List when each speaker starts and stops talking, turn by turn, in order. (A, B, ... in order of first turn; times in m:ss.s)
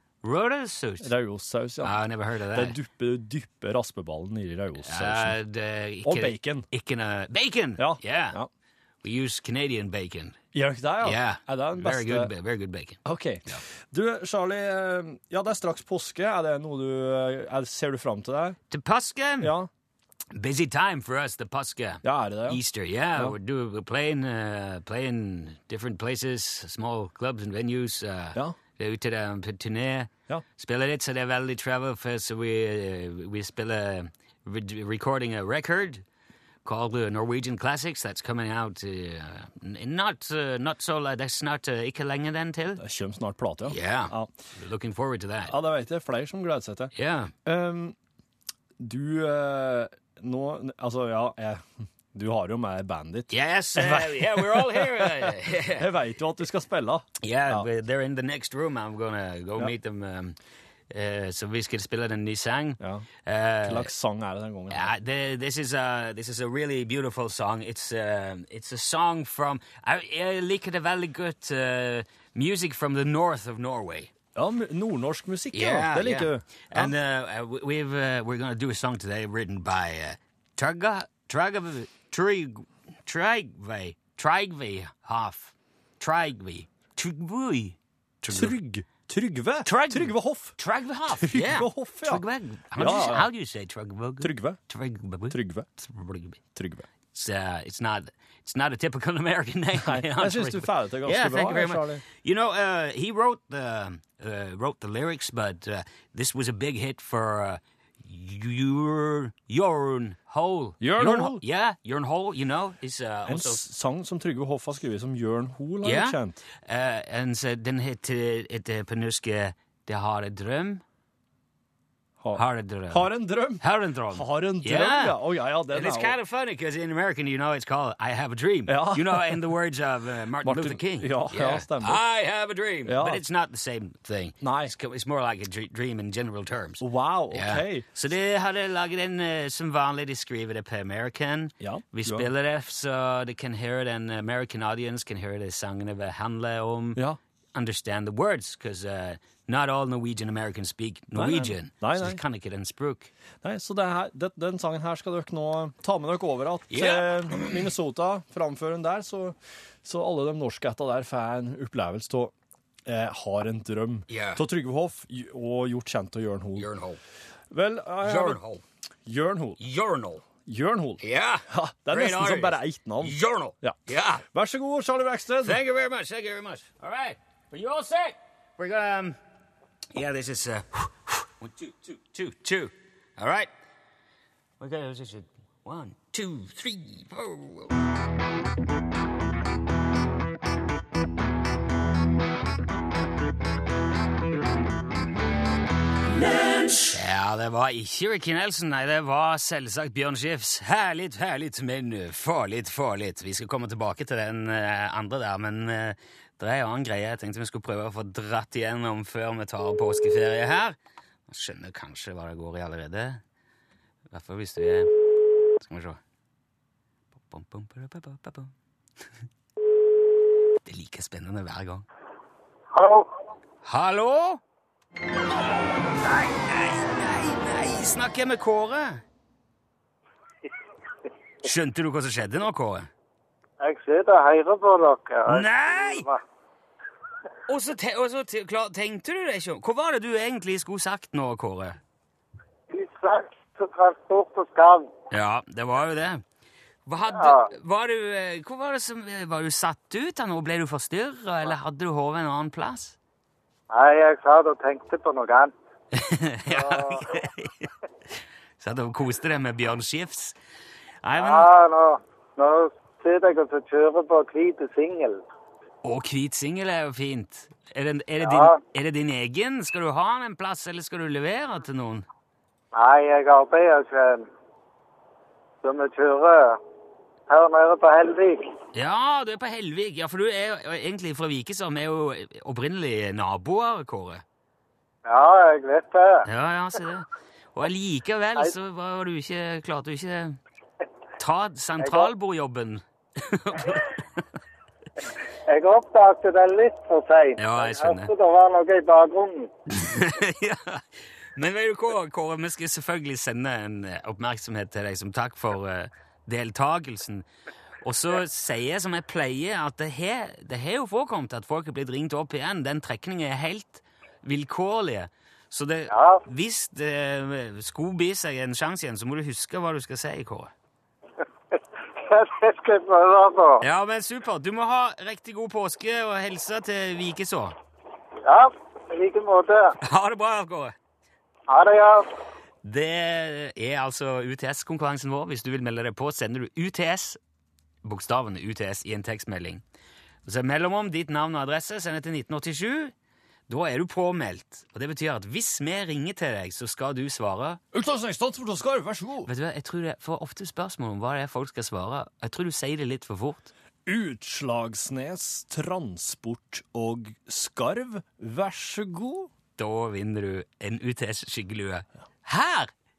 0:00.2-0:01.1 A
0:01.0-0:02.0 B
0:01.8-0:02.8 A
0:02.5-0:05.4 B
0:04.8-0:08.4 A
0:06.0-0:06.7 B
0:07.8-0:08.5 B
0:09.0-0:10.4 A
0:10.5-0:12.3 B
0:11.0-0:13.6 A
0:13.0-0:18.6 B
0:18.7-0:19.5 A
0:19.4-0:19.7 B
0:20.3-0:36.0 A
0:22.0-0:22.6 B
0:36.6-0:42.8 A
0:42.8-0:44.3 B
0:43.6-0:45.5 A
0:45.5-0:46.9 B
0:46.9-0:47.3 A
0:47.4-0:48.0 B
0:48.8-0:57.7 B
0:53.3-0:55.9 A
0:57.2-1:00.4 A
1:00.9-1:03.9 A
1:02.8-1:03.1 B
1:03.6-1:04.9 B
1:04.7-1:14.1 A
1:14.3-1:16.9 B
1:15.5-1:28.6 A
1:28.3-1:30.5 B
1:29.6-1:36.4 A
1:31.2-1:32.2 B
1:32.7-1:33.3 B
1:34.2-1:34.6 B
1:35.3-1:35.7 B
1:36.5-1:36.9 B
1:37.1-1:53.6 A
1:39.8-1:42.0 B
1:50.8-1:51.4 B
1:53.3-1:56.4 B
1:55.8-2:00.8 A
2:02.2-2:06.2 B
2:02.3-2:05.2 A
2:05.7-2:27.0 A
2:08.7-2:09.4 B
2:10.4-2:12.0 B
2:12.8-2:13.2 B
2:14.4-2:14.7 B
2:16.8-2:17.8 B
2:21.6-2:22.3 B
2:27.5-2:33.1 A
2:31.1-2:32.2 B
2:33.4-2:42.3 B
2:36.7-2:37.7 A
2:42.8-2:46.7 B
2:44.1-2:44.4 A
2:46.6-2:47.0 A
2:47.5-2:48.4 B
2:48.0-2:48.6 A
2:49.0-2:49.6 B
2:49.6-2:50.2 A
2:50.4-2:55.6 B
2:51.0-2:54.2 A
2:55.4-2:59.2 A
2:59.9-3:03.5 A
3:04.6-3:07.8 A
3:16.8-3:33.2 A
3:34.1-3:34.9 A
3:35.6-3:36.0 A
3:37.3-3:38.5 A
3:40.6-3:41.8 A
3:42.7-3:43.1 C
3:43.6-3:44.4 A
3:46.0-3:49.0 A
3:51.4-3:52.9 A
3:53.6-3:56.2 C
3:55.3-3:56.0 A
3:57.5-4:01.8 A
4:02.7-4:04.9 C
4:05.1-4:06.2 A
4:06.8-4:13.0 A
4:07.1-4:07.5 C
4:13.7-4:15.5 C
4:15.9-4:17.7 A
4:16.5-4:17.1 C
4:18.6-4:20.4 A
4:21.0-4:21.5 A
4:21.2-4:25.2 C
4:25.8-4:32.0 A
4:28.2-4:28.6 C
4:32.7-4:34.3 C
4:35.6-4:36.6 C
4:37.3-4:38.5 C
4:38.7-4:44.2 A
4:45.0-4:46.2 C
4:46.2-4:50.4 A
4:51.2-4:54.2 A
4:51.8-4:52.1 C
4:55.5-4:59.5 C
4:57.4-4:58.1 A
4:59.7-5:00.8 A
5:01.4-5:07.2 A
5:07.8-5:20.5 A
5:15.9-5:16.2 C
5:22.0-5:23.6 C
5:23.6-5:27.6 A
5:28.2-5:29.7 C
5:29.8-5:30.7 A
5:31.5-5:32.0 C
5:32.6-5:37.2 A
5:37.8-5:39.6 A
5:40.2-5:42.9 A
5:43.5-5:47.6 A
5:47.7-5:49.3 B
5:49.2-5:53.5 A
5:53.8-5:59.3 B
5:59.6-6:02.7 A